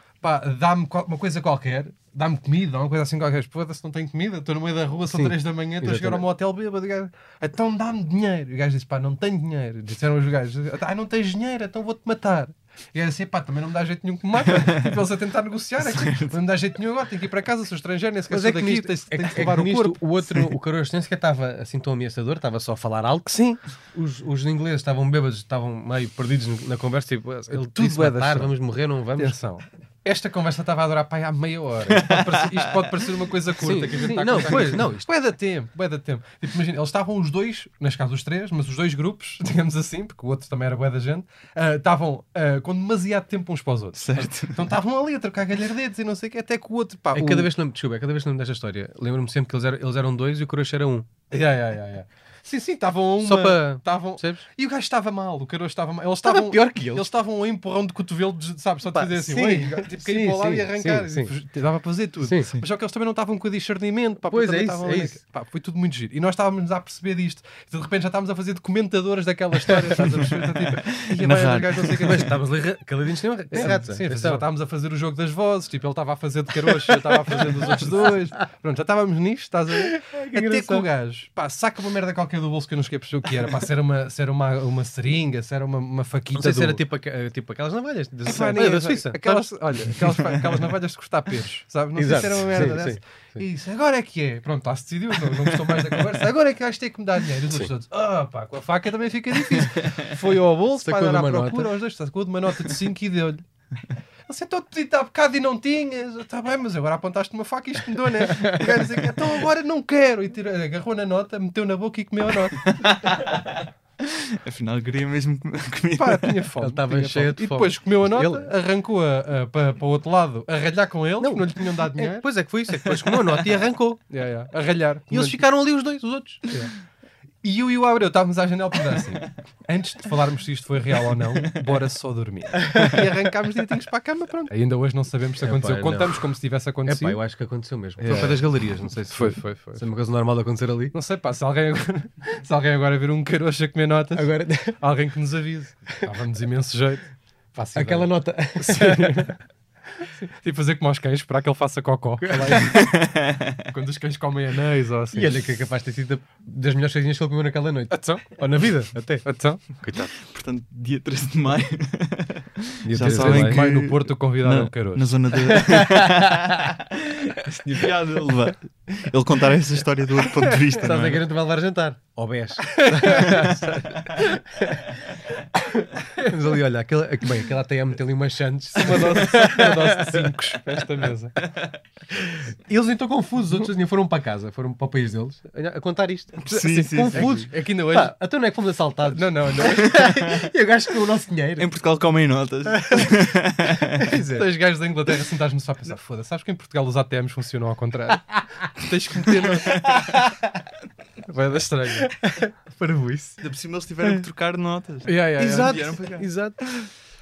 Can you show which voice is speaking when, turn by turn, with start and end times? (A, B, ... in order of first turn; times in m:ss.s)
0:00.2-0:20.0 A
0:05.1-0:06.2 B
0:14.6-0:14.9 C
0:15.8-0:16.4 C
0:18.3-0:29.4 B
0:27.5-0:28.5 A
0:29.2-0:47.5 A
0:32.0-0:32.3 C
0:33.6-0:35.1 B
0:43.9-0:44.7 C
0:47.1-0:51.1 B
0:51.3-1:12.4 A
0:53.2-0:54.4 B
0:56.2-0:57.1 B
0:58.9-1:01.3 B
1:04.3-1:05.2 B
1:10.6-1:12.0 C
1:11.9-1:14.4 B
1:13.5-1:26.8 A
1:16.9-1:18.2 B
1:19.8-1:20.9 B
1:26.4-1:30.2 B
1:28.3-1:43.4 A
1:32.0-1:33.4 B
1:40.8-1:41.7 B
1:44.3-1:53.4 A
1:48.2-1:48.8 B
1:52.7-1:53.4 C
1:54.0-1:56.4 C
1:56.0-2:02.3 A
1:56.6-1:58.5 B
2:01.2-2:04.0 B
2:04.1-2:05.4 A
2:05.1-2:06.5 B
2:07.4-2:17.2 A
2:15.4-2:16.2 B
2:16.9-2:21.0 B
2:18.0-2:18.4 A
2:19.1-2:19.9 A
2:20.9-2:29.4 A
2:24.2-2:24.8 B
2:27.8-2:29.3 B
2:30.0-2:33.0 A
2:32.2-2:32.8 B
2:32.7-2:33.6 C
2:33.6-2:35.3 A
2:35.1-2:40.1 B
2:37.9-2:38.4 A
2:39.2-2:39.8 A
2:40.2-2:46.7 C
2:42.9-2:43.6 B
2:42.9-2:45.6 A
2:45.6-2:46.4 B
2:47.5-2:51.2 C
2:50.8-2:55.0 B
2:52.7-2:54.4 A
2:56.2-3:00.8 B
2:58.8-3:01.4 A
3:02.2-3:11.7 B
3:06.5-3:07.4 C
3:06.9-3:08.1 A
3:09.0-3:10.2 A
3:11.6-3:14.0 C
3:14.0-3:14.5 B
3:14.1-3:20.2 A
3:19.9-3:20.3 B
3:21.3-3:23.4 B
3:21.3-3:22.1 A
3:23.4-3:26.3 C
3:25.0-3:26.9 B